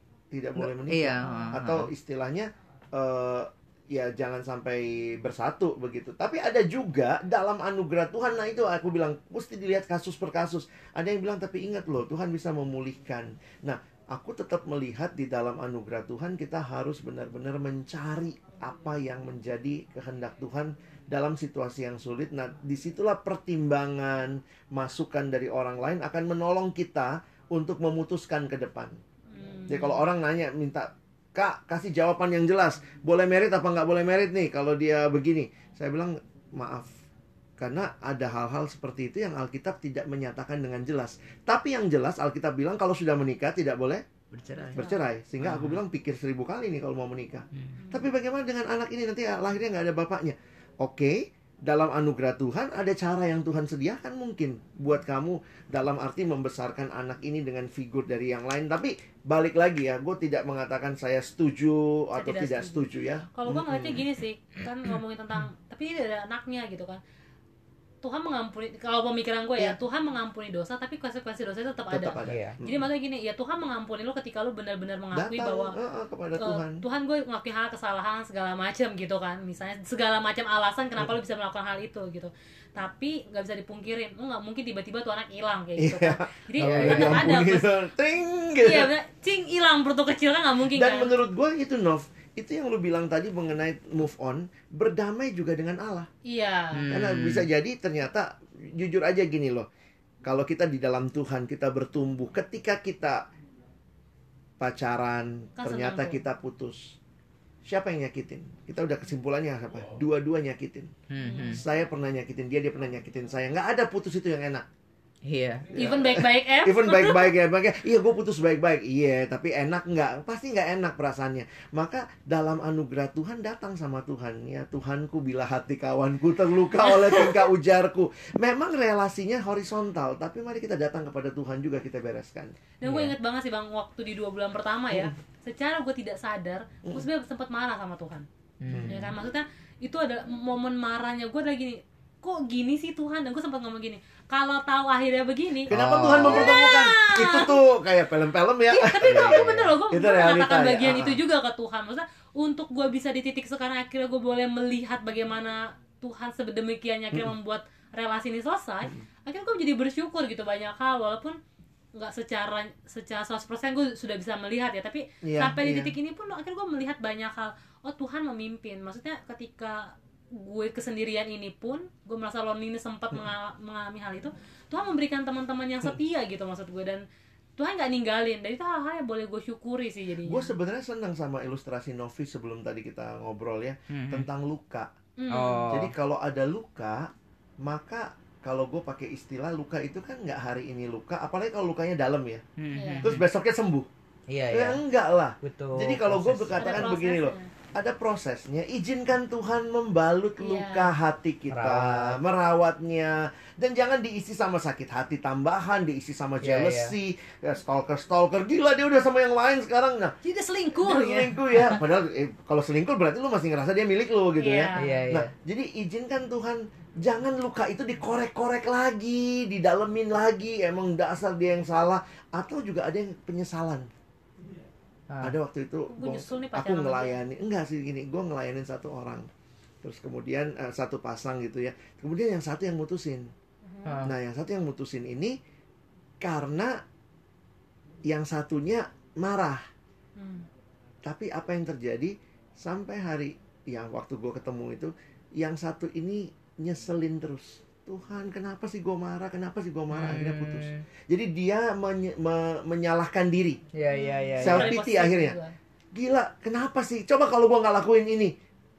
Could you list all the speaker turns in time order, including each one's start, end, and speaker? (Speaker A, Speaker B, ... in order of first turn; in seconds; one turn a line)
Speaker A: 0.3-29.0
Speaker B: 0.6-1.9
Speaker C: 1.2-1.5
Speaker C: 29.3-30.0
Speaker A: 29.7-36.9
Speaker A: 37.6-44.0
Speaker B: 44.3-44.9
Speaker C: 44.6-45.0
Speaker A: 44.8-64.0
Speaker B: 45.4-45.8
Speaker C: 47.8-48.0
Speaker C: 62.1-67.0
Speaker C: 68.0-75.8
Speaker A: 71.9-72.9
Speaker B: 72.3-72.6
Speaker A: 75.1-76.8
Speaker C: 76.4-87.7
Speaker A: 85.8-88.9
Speaker B: 86.6-87.3
Speaker C: 88.6-91.1
Speaker A: 90.8-96.1
Speaker C: 96.3-96.8
Speaker B: 96.7-97.5
Speaker A: 96.9-99.7
Speaker A: 100.3-103.3
Speaker A: 104.6-107.0
Speaker C: 105.6-106.2
Speaker A: 107.7-110.9
Speaker B: 111.1-111.6
Speaker C: 111.3-111.6
Speaker A: 111.5-114.7
Speaker B: 115.3-115.7
Speaker A: 115.7-132.5
Speaker C: 115.8-117.3
Speaker C: 127.0-127.3
Speaker C: 132.8-138.3
Speaker B: 132.8-133.1
Speaker B: 138.6-139.0
Speaker A: 138.7-139.1
Speaker C: 138.9-147.6
Speaker B: 145.7-146.6
Speaker A: 145.7-151.2
Speaker C: 148.7-161.4
Speaker C: 161.9-177.0
Speaker A: 165.2-165.9
Speaker C: 177.6-180.5
Speaker A: 180.2-184.9
Speaker B: 183.9-184.3
Speaker C: 185.2-185.7
Speaker B: 185.3-185.9
Speaker A: 185.7-192.4
Speaker B: 192.6-193.2
Speaker C: 192.8-193.1
Speaker A: 193.0-193.9
Speaker B: 194.3-194.8
Speaker A: 194.5-210.2
Speaker B: 195.4-196.9
Speaker C: 196.6-197.5
Speaker C: 200.4-200.9
Speaker B: 201.5-202.2
Speaker B: 206.4-206.9
Speaker C: 210.2-211.8
Speaker A: 210.8-223.9
Speaker C: 214.4-215.1
Speaker B: 214.8-215.3
Speaker A: 225.2-229.3
Speaker C: 225.9-227.2
Speaker A: 229.8-233.3
Speaker C: 233.7-234.0
Speaker B: 233.9-234.1
Speaker A: 234.0-235.3
Speaker A: 236.2-236.8
Speaker A: 238.1-239.6
Speaker C: 240.2-240.5
Speaker A: 241.1-253.6
Speaker B: 249.9-250.8
Speaker B: 253.7-254.7
Speaker C: 253.9-255.6
Speaker A: 254.4-255.4
Speaker A: 255.9-258.3